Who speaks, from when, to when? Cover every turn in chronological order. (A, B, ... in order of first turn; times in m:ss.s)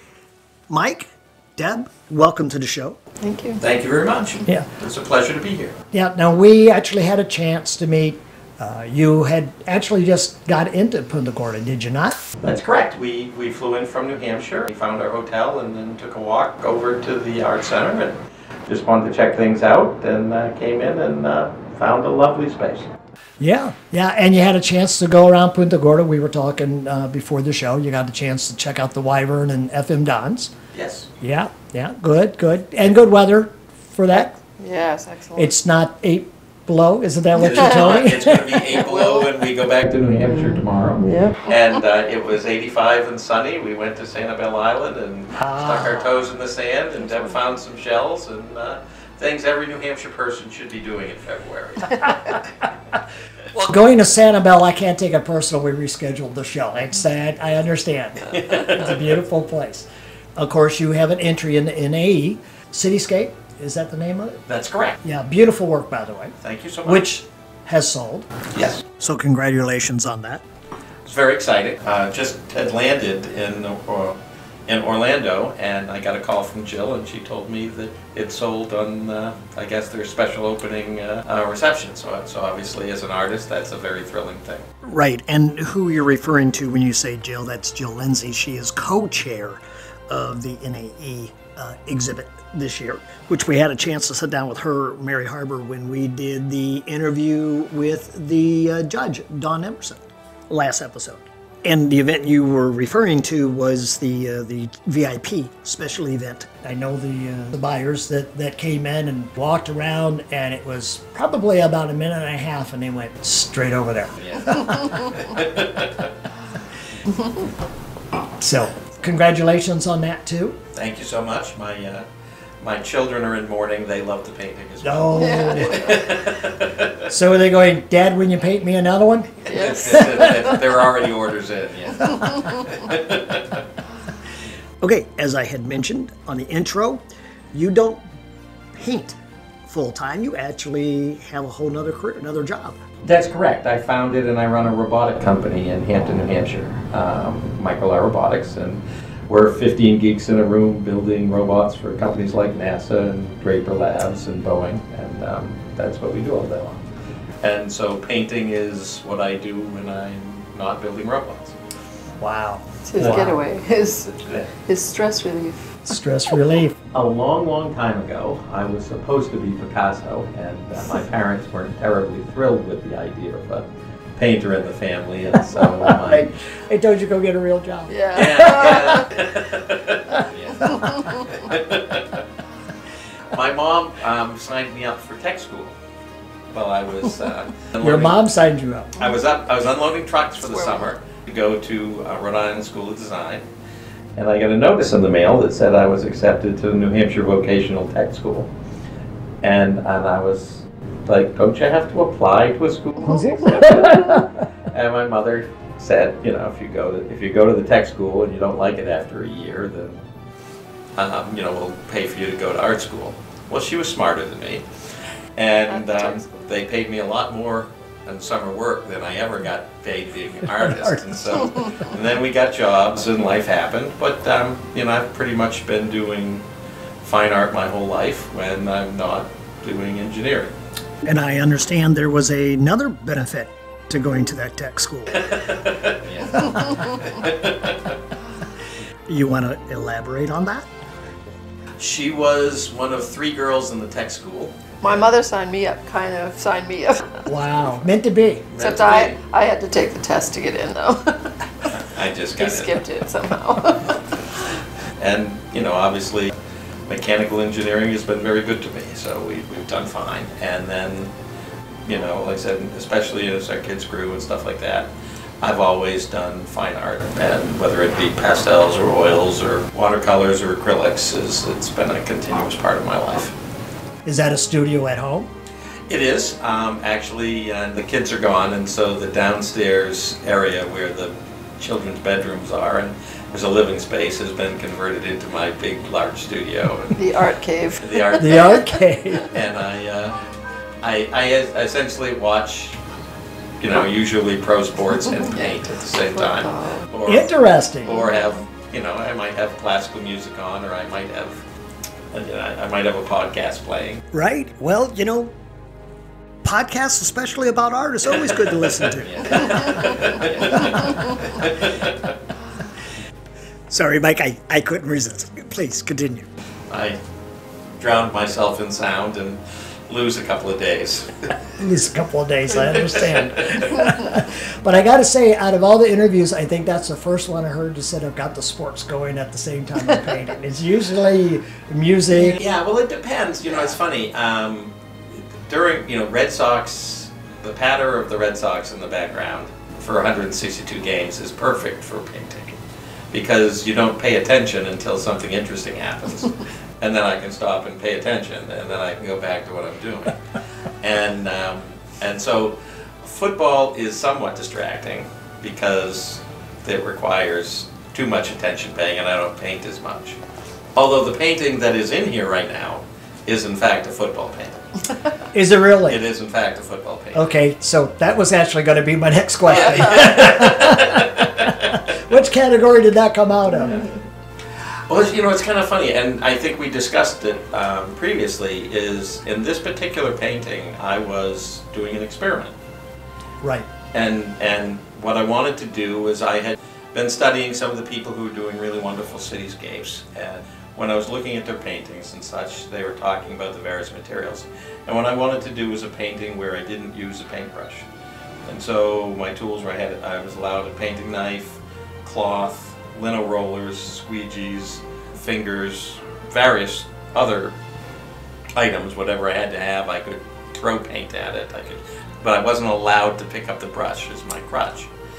0:00.7-0:03.0 A
0:03.2-0:03.6 B
0:03.6-0:05.8 C
0:05.9-0:12.2 A
0:12.4-0:22.9 C
0:23.4-0:30.5 A
0:30.7-0:31.1 C
0:31.2-0:34.3 A
0:34.2-0:35.5 B
0:35.4-0:38.6 A
0:37.4-0:52.4 C
0:38.7-0:39.3 B
0:40.3-0:41.5 B
0:45.4-0:46.2 A
0:53.6-1:04.4 A
0:58.3-0:59.0 C
1:04.5-1:05.0 C
1:05.0-1:08.3 A
1:06.4-1:07.1 C
1:08.5-1:08.8 C
1:09.0-1:10.4 A
1:11.0-1:24.7 C
1:24.8-1:54.9 A
1:54.2-1:56.1 C
1:58.4-2:00.6 A
2:00.7-2:02.1 C
2:02.6-2:07.0 C
2:04.8-2:05.8 A
2:05.1-2:06.1 B
2:07.1-2:10.5 A
2:09.5-2:10.6 B
2:09.5-2:13.6 C
2:12.2-2:12.5 B
2:14.8-2:18.0 A
2:18.7-2:22.8 A
2:23.0-2:36.8 C
2:37.4-2:41.6 C
2:42.2-2:43.2 A
2:42.9-2:45.8 B
2:43.0-2:43.4 C
2:44.2-2:44.5 C
2:45.8-2:46.8 A
2:46.9-2:56.3 C
2:55.6-2:58.8 A
2:57.9-2:59.0 B
2:58.1-3:02.2 C
3:03.3-3:05.8 C
3:06.5-3:08.2 C
3:07.8-3:08.9 A
3:09.0-3:13.4 C
3:10.5-3:10.9 B
3:14.2-3:18.5 C
3:19.4-3:30.0 C
3:23.0-3:24.3 A
3:31.0-3:34.6 C
3:35.4-3:46.4 C
3:35.7-3:36.4 B
3:40.4-3:41.5 A
3:47.0-3:50.6 C
3:51.0-3:55.4 A
3:55.2-3:58.0 C
3:59.1-4:00.7 A
4:01.8-4:05.1 C
4:04.8-4:07.3 B
4:07.3-4:08.5 A
4:08.5-4:09.2 C
4:08.6-4:11.5 B
4:11.7-4:12.7 C
4:12.4-4:14.0 B
4:15.0-4:16.3 C
4:16.9-4:21.1 C
4:21.9-4:33.4 C
4:34.0-4:35.3 A
4:35.9-4:47.0 C
4:47.0-4:48.5 B
4:47.8-4:48.6 C
4:48.2-4:49.2 A
4:49.2-4:50.2 C
4:50.8-4:52.8 C
4:53.6-4:57.3 C
4:55.3-4:56.9 B
4:57.0-4:58.0 A
4:57.8-5:01.4 C
4:57.9-4:58.4 B
5:02.1-5:04.0 C
5:04.1-5:05.3 A
5:06.4-5:11.0 A
5:08.2-5:12.1 C
5:13.7-5:16.3 A
5:16.7-5:17.0 C
5:17.8-5:21.3 C
5:21.6-5:32.4 A
5:22.5-5:24.1 C
5:32.2-5:42.6 C
5:43.1-5:50.2 C
5:50.8-6:00.2 C
6:00.8-6:04.8 C
6:05.3-6:06.0 A
6:05.8-6:07.3 C
6:07.1-6:13.9 A
6:09.5-6:11.7 C
6:14.9-6:22.6 C
6:23.4-6:23.7 A
6:23.9-6:37.9 C
6:38.4-6:47.6 C
6:48.6-6:54.9 C